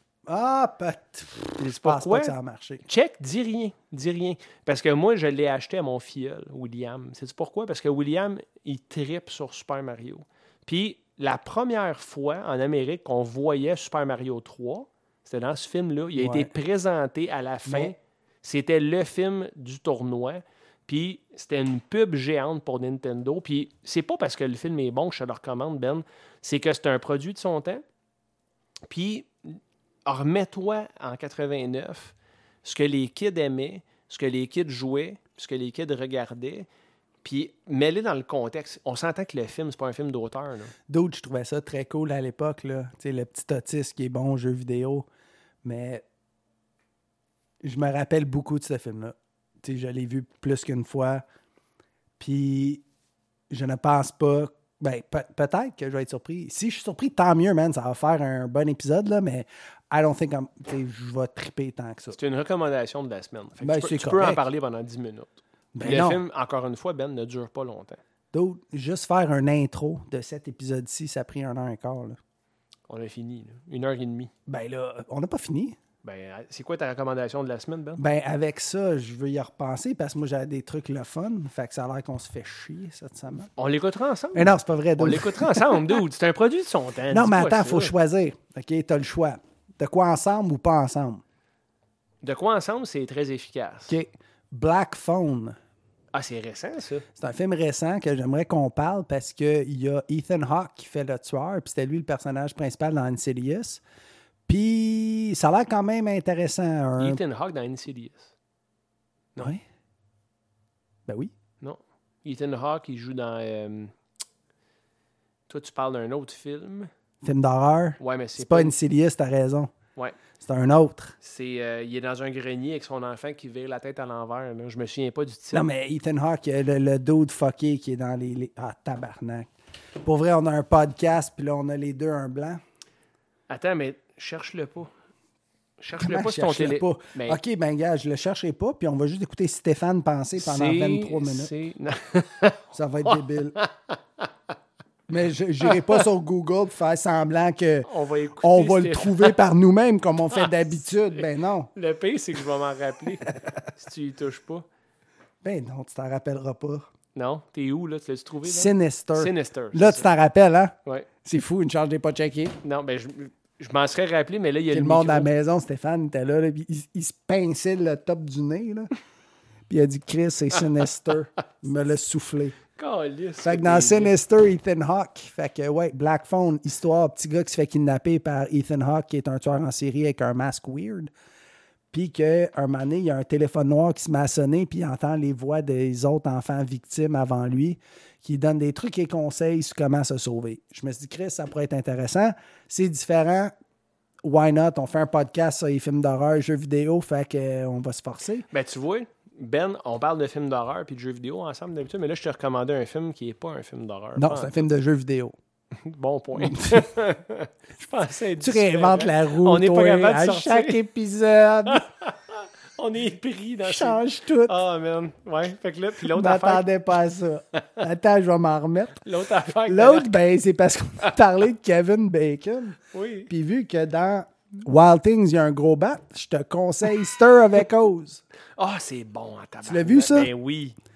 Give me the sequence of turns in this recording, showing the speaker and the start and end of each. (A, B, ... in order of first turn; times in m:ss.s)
0:00.3-0:02.8 A
0:01.6-0:27.8 B
0:16.1-0:16.5 A
0:17.6-0:17.9 A
0:28.9-0:36.7 B
0:37.2-0:40.7 B
0:40.9-0:45.1 A
0:45.6-0:46.0 A
0:47.6-0:51.2 A
0:52.2-0:52.8 A
0:53.5-1:02.2 A
1:02.1-1:08.0 B
1:03.6-1:04.4 A
1:05.7-1:06.2 A
1:08.3-1:12.2 A
1:12.9-1:14.3 B
1:14.5-1:15.8 A
1:16.0-1:18.0 B
1:18.0-1:23.5 A
1:23.6-1:27.9 B
1:24.3-1:26.0 A
1:27.1-1:31.2 A
1:32.2-1:34.0 B
1:33.9-1:35.6 A
1:36.1-1:37.0 B
1:37.1-1:43.8 A
1:44.5-1:47.2 A
1:47.0-1:48.3 B
1:51.1-1:51.3 A
1:51.6-1:53.9 B
1:55.5-1:56.9 B
1:57.2-1:59.7 A
1:58.0-1:58.7 B
2:00.4-2:01.2 A
2:01.2-2:05.7 B
2:05.5-2:09.5 A
2:10.0-2:12.6 A
2:13.5-2:14.9 B
2:15.8-2:17.4 B
2:16.0-2:21.5 A
2:20.4-2:24.3 B
2:22.7-2:23.6 A
2:25.1-2:27.9 A
2:25.6-2:26.0 B
2:27.8-2:29.4 B
2:28.4-2:31.7 A
2:31.7-2:34.6 B
2:35.4-2:36.9 A
2:37.1-2:40.1 B
2:38.4-2:42.6 A
2:42.6-2:45.3 B
2:44.7-2:48.9 A
2:49.7-2:52.6 A
2:52.8-2:54.1 B
2:53.4-3:01.1 A
3:01.9-3:13.5 A
3:14.2-3:18.5 A
3:18.5-3:24.5 B
3:24.2-3:25.3 A
3:25.7-3:30.8 B
3:26.4-3:26.9 A
3:28.4-3:31.9 A
3:31.7-3:36.6 B
3:33.6-3:34.6 A
3:36.0-3:48.2 A
3:39.0-3:40.2 B
3:42.9-3:43.3 B
3:48.6-3:50.8 B
3:49.6-3:50.3 A